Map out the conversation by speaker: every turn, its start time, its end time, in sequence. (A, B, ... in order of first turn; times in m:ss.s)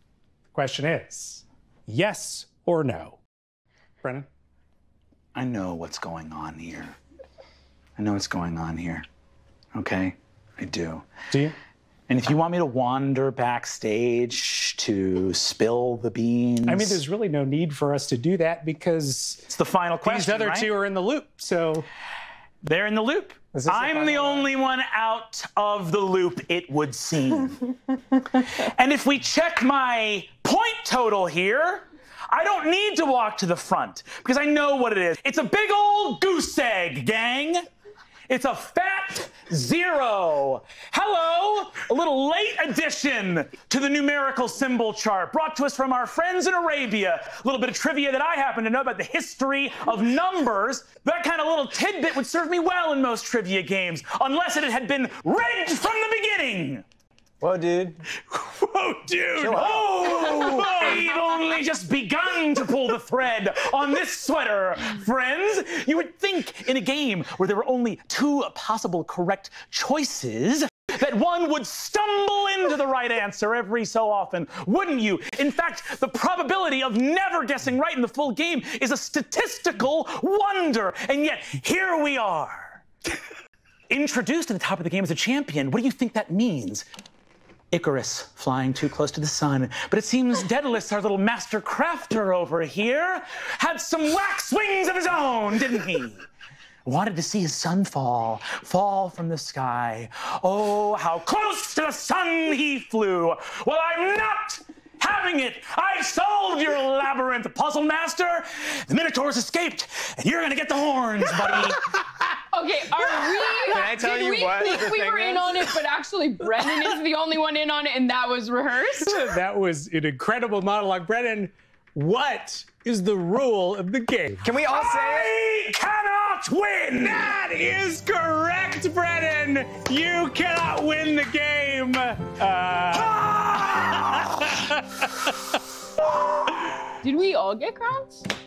0:00.5-0:03.2 A
0:04.0-0:04.3 A
0:05.4-0:07.0 B
0:08.0-0:09.0 B
0:09.7-0:11.1 B
0:11.3-0:11.6 A
0:12.1-0:17.0 B
0:16.7-0:19.5 A
0:19.5-0:20.7 B
0:20.0-0:21.9 A
0:22.6-0:37.6 B
0:23.5-0:24.5 A
0:38.3-0:56.8 B
0:57.4-0:58.0 C
0:58.3-1:22.8 B
0:59.4-1:00.5 C
1:23.9-1:26.9 B
1:27.7-1:36.2 B
1:36.9-1:52.0 B
1:52.5-1:59.3 D
1:53.7-1:55.6 C
1:59.0-2:04.5 A
2:04.4-2:05.3 C
2:04.6-2:07.3 B
2:07.0-2:13.2 A
2:12.9-2:14.5 B
2:17.0-2:18.2 D